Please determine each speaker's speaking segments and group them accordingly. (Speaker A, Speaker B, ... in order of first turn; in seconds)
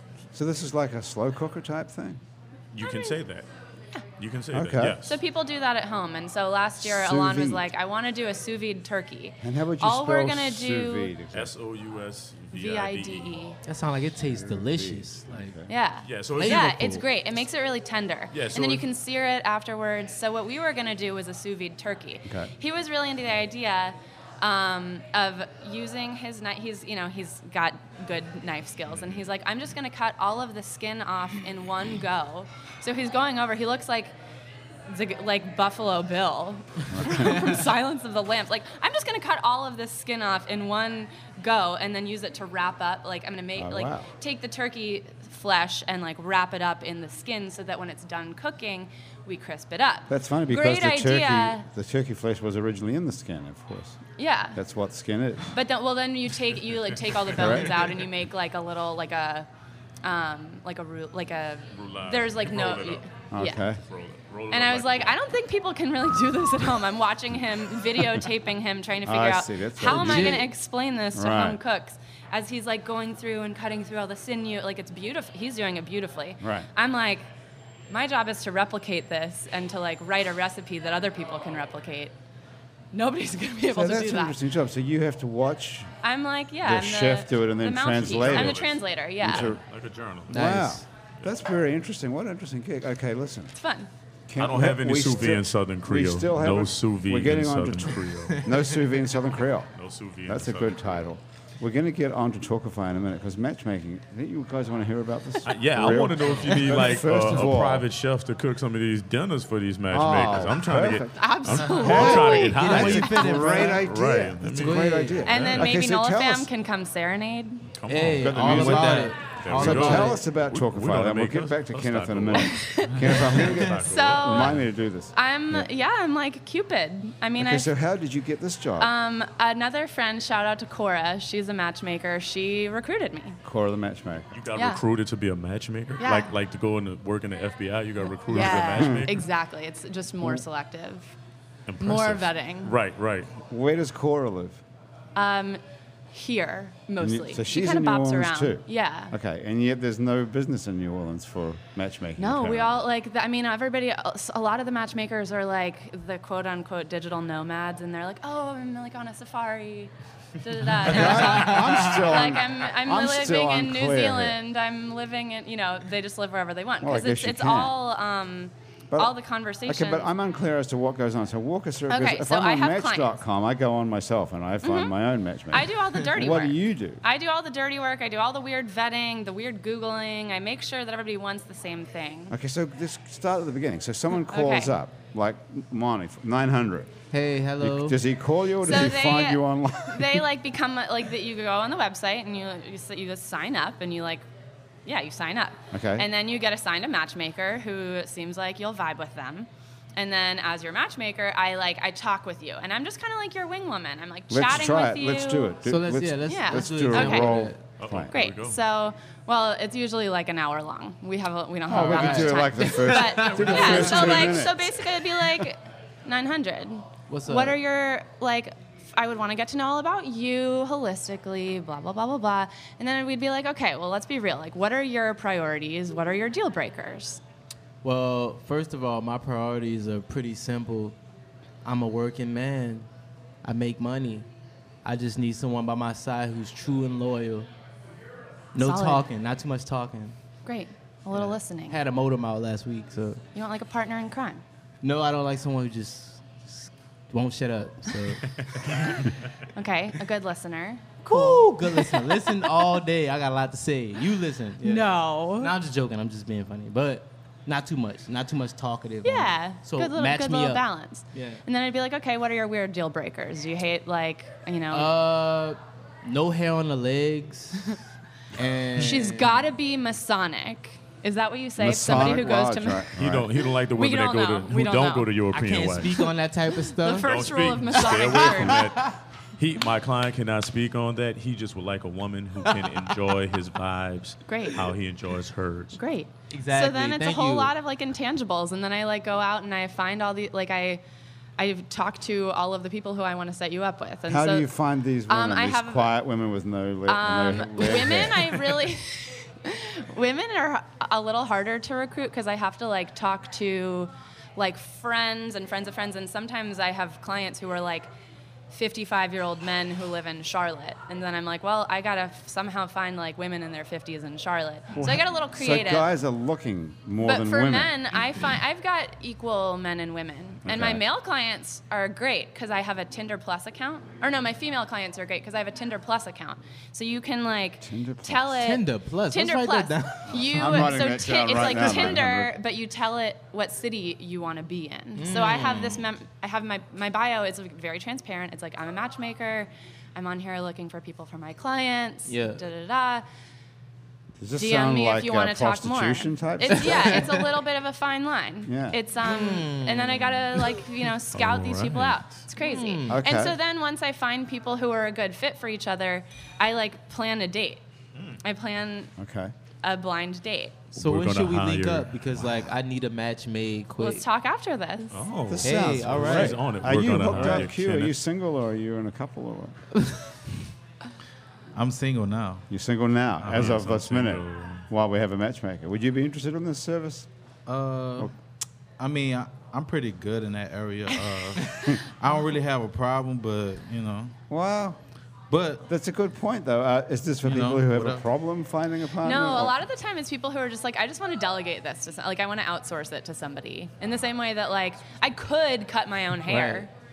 Speaker A: 0.3-2.2, 4.5-5.0, 6.8-7.7, 9.4-11.5, 14.2-15.7, 36.9-37.5, 43.5-44.1, 50.1-54.0, 54.5-55.5, 57.3-57.8, 63.3-63.8, 69.0-70.5, 71.1-71.6, 76.4-76.7, 83.7-85.9, 86.6-88.6, 89.2-89.6, 90.3-93.5, 94.3-99.7, 100.2-107.9, 109.9-116.5, 118.2-125.7, 127.4-128.9, 133.4-134.4, 138.3-139.1, 143.5-144.6, 147.0-152.8, 160.8-164.4, 166.8-167.7, 168.9-177.0, 182.3-186.9, 187.6-190.3, 195.7-196.1, 204.3-208.1, 211.7-215.0, 271.6-273.3, 294.1-298.7, 314.8-317.7, 320.4-320.8, 327.6-328.4, 330.3-332.3, 344.2-347.1, 348.4-348.8, 352.9-353.4, 359.0-359.3, 365.3-369.6, 372.5-377.1, 384.3-384.8, 385.7-389.6
Speaker B: 2.7-3.5, 4.2-5.2, 11.3-13.4, 16.0-16.9, 18.3-18.8, 61.7-63.2, 63.8-65.2, 87.9-90.6, 94.4-98.5, 99.7-101.0, 105.5-115.7, 117.7-124.7, 134.3-139.3, 141.7-143.3, 207.8-208.6, 272.9-275.9, 277.0-285.8, 351.1-352.2, 360.7-362.4, 364.9-367.9, 373.3-374.6
Speaker C: 2.8-3.1, 5.0-11.1, 12.5-13.6, 15.7-34.1, 34.9-51.6, 54.2-54.6, 55.5-59.5, 60.0-63.6, 64.5-77.2, 77.9-82.1, 82.9-84.4, 86.0-89.5, 93.6-93.9, 111.1-113.1, 115.2-117.6, 122.4-124.6, 125.1-127.7, 128.8-133.4, 134.5-134.8, 136.0-136.3, 138.3-141.1, 141.8-142.8, 145.1-145.6, 146.1-149.1, 152.2-170.1, 171.9-173.2, 174.6-174.9, 175.5-182.3, 184.2-184.8, 188.6-194.2, 194.8-205.6, 206.3-207.4, 208.1-227.2, 238.6-239.0, 240.4-241.8, 243.3-244.4, 249.5-252.3, 254.6-255.5, 259.0-264.9, 268.7-272.9, 273.7-275.1, 276.7-278.7, 284.3-284.7, 285.7-290.8, 291.4-294.5, 295.1-295.9, 296.9-307.9, 308.5-315.9, 317.0-343.0, 344.4-357.6, 358.2-358.9, 359.6-360.6, 363.8-365.0, 389.0-396.7
Speaker D: 13.7-15.5, 16.4-17.0, 69.9-70.5, 90.3-90.8, 111.9-113.8, 114.6-115.2, 117.9-120.2, 161.2-161.6, 187.1-188.0, 205.6-207.6, 211.7-214.4, 217.1-217.6, 227.8-231.0, 231.6-232.9, 233.4-234.3, 234.8-237.5, 238.5-240.2, 241.1-243.2, 244.8-248.3, 251.1-261.4, 264.7-267.8, 268.3-269.4, 275.3-277.1, 278.0-278.9, 286.3-287.5, 328.4-330.7, 334.9-335.8, 342.1-342.4, 346.6-347.2, 349.0-350.6, 352.4-353.0, 360.7-364.1, 365.4-366.4, 396.2-396.7
Speaker E: 371.5-372.4, 373.2-373.5, 377.5-378.1, 378.8-384.1, 385.3-385.6, 387.2-388.0